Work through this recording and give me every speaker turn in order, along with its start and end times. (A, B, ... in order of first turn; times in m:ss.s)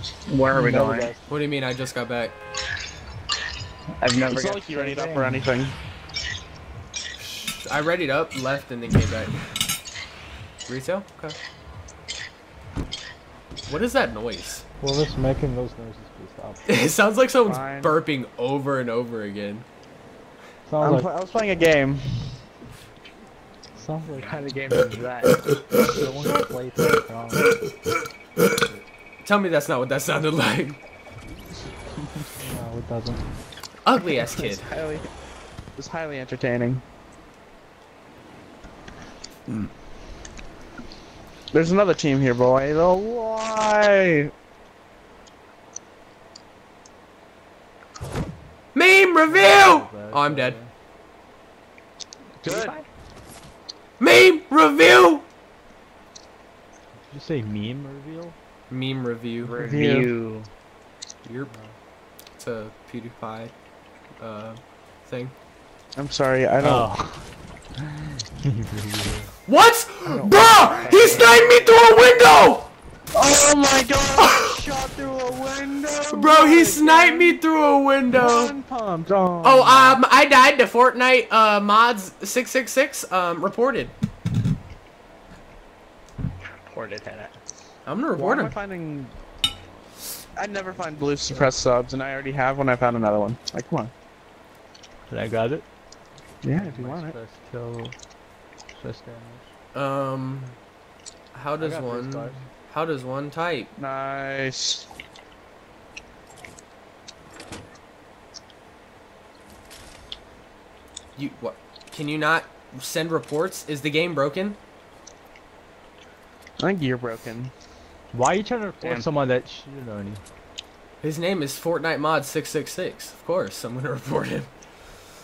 0:00.3-0:01.1 A
0:00.5-0:01.2 B
0:01.3-0:02.4 C
0:04.0-0:05.5 A
0:04.3-0:05.8 D
0:07.2-0:09.5 C
0:10.7-0:11.4 C
0:13.7-0:14.6 C
0:14.8-0:16.6 B
0:16.7-0:19.7 C
0:17.5-0:18.0 D
0:20.7-0:21.1 B
0:20.8-0:22.3 D
0:23.8-0:24.4 B
0:24.2-0:25.5 A
0:25.8-0:27.6 B
0:29.2-0:30.8 C
0:32.4-0:33.2 B
0:33.8-0:34.7 C
0:34.1-0:35.1 D
0:35.8-0:36.8 D
0:41.5-0:44.3 D
0:48.7-0:50.6 C
0:49.3-0:50.7 B
0:52.4-0:52.8 D
0:52.4-0:52.9 A
0:54.0-0:55.3 C
0:57.1-0:58.4 B
0:58.7-0:59.6 C
0:59.4-1:00.5 A
0:59.6-1:00.1 D
1:01.2-1:01.5 C
1:01.5-1:01.8 B
1:02.4-1:03.5 C
1:04.2-1:05.3 C
1:06.0-1:06.9 D
1:06.6-1:07.2 B
1:07.8-1:09.3 B
1:09.5-1:12.7 C
1:10.0-1:11.4 D
1:10.6-1:11.8 A
1:13.1-1:17.4 D
1:14.2-1:14.6 C
1:16.1-1:18.6 C
1:18.1-1:20.0 D
1:19.4-1:23.9 C
1:26.6-1:27.4 A
1:27.9-1:28.6 C
1:28.2-1:29.1 D
1:30.4-1:33.9 D
1:35.1-1:35.7 B
1:36.4-1:37.2 D
1:36.5-1:37.9 B
1:38.8-1:39.5 B
1:39.7-1:40.6 C
1:41.3-1:43.7 C
1:41.6-1:42.5 B
1:43.8-1:44.9 D
1:51.2-1:54.6 C
1:56.6-1:57.5 D
1:58.1-2:00.2 B
2:01.0-2:04.5 C